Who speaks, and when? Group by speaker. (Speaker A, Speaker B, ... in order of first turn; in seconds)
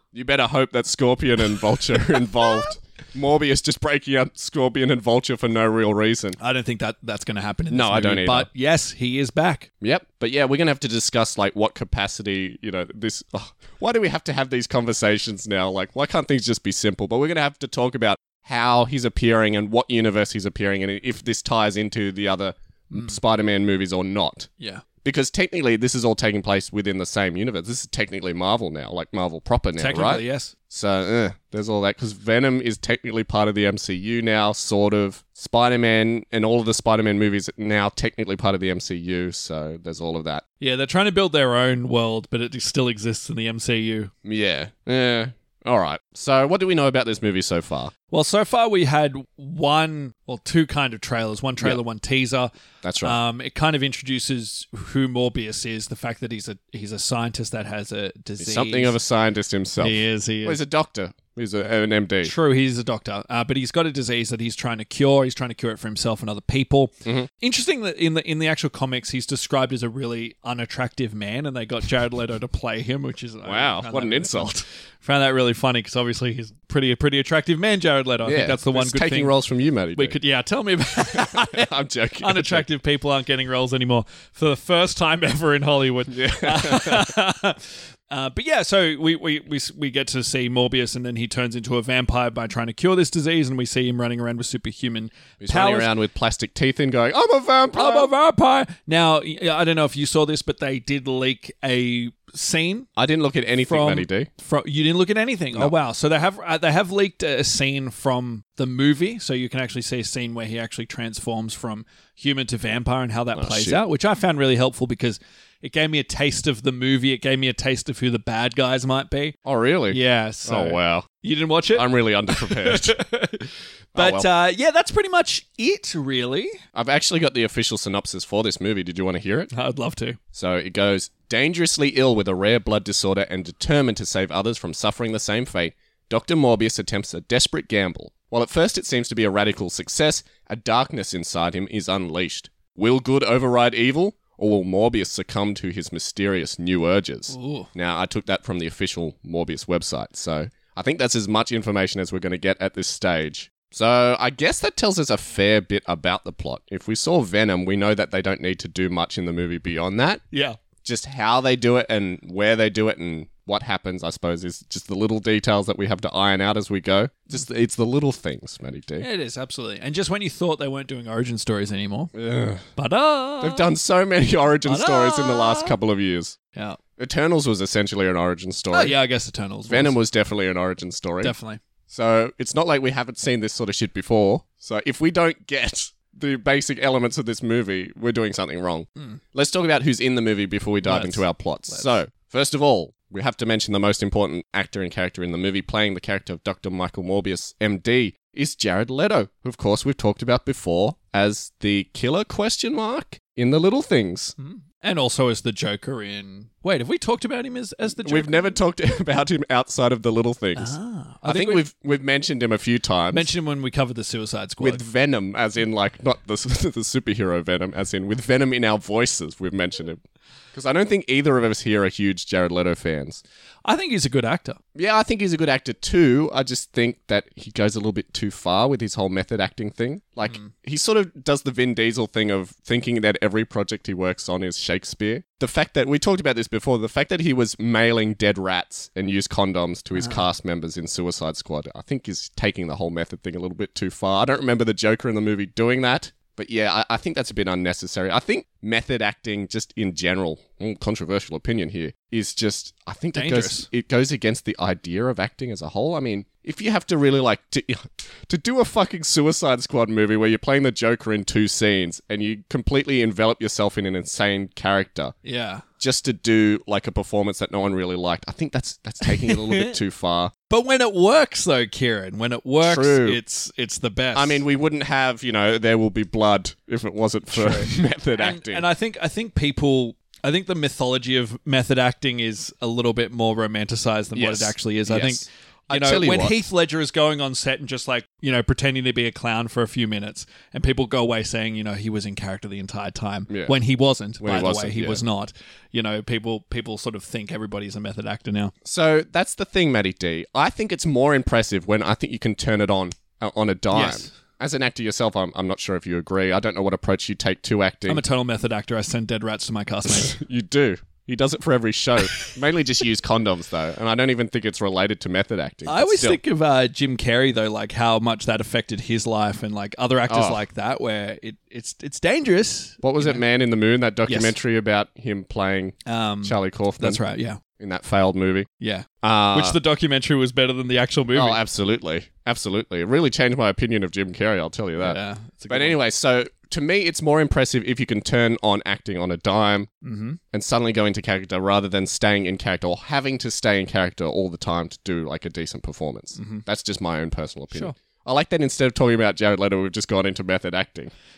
Speaker A: 0.1-6.4, 7.7-8.5, 9.8-24.5, 25.0-40.4, 44.2-47.9, 52.8-53.2, 58.4-62.3, 73.5-74.7, 78.2-80.2, 81.1-82.7, 86.1-87.1, 95.4-98.1, 103.0-104.3, 113.3-113.8, 119.5-121.1, 121.7-123.0, 123.9-124.3, 126.8-129.5, 130.3-160.2, 160.8-169.1, 172.1-172.7, 173.4-176.4, 177.0-179.0, 179.7-181.3, 181.9-204.3, 208.0-213.3, 214.6-220.0, 220.5-223.2, 224.8-265.1, 265.8-270.3, 272.6-273.2, 274.1-278.7, 284.1-286.4, 293.3-293.5, 294.2-295.0, 298.6-308.0, 309.9-316.2, 320.1-320.4, 322.8-327.0, 327.6-328.5, 329.0-329.6, 331.1-339.7, 340.3-350.9
Speaker B: 6.4-9.7, 29.8-30.5, 40.6-44.1, 48.1-59.0, 59.8-60.6, 62.2-79.3, 80.0-81.7, 82.2-95.9, 97.7-102.9, 103.7-119.4, 119.9-126.6, 129.5-130.2, 147.3-147.7, 160.3-160.6, 169.0-172.1, 172.8-173.7, 174.7-175.8, 178.7-179.9, 181.2-181.6, 190.8-191.9, 204.4-208.5, 210.6-211.7, 213.1-214.8, 223.7-224.6, 230.3-230.5, 253.2-253.7, 265.2-265.6, 269.1-269.7, 270.5-274.4, 277.3-298.5, 303.7-304.1, 307.9-310.1, 315.7-323.2, 324.1-324.4, 325.9-327.4, 328.6-331.4, 334.8-335.8, 339.8-340.2, 346.2-346.4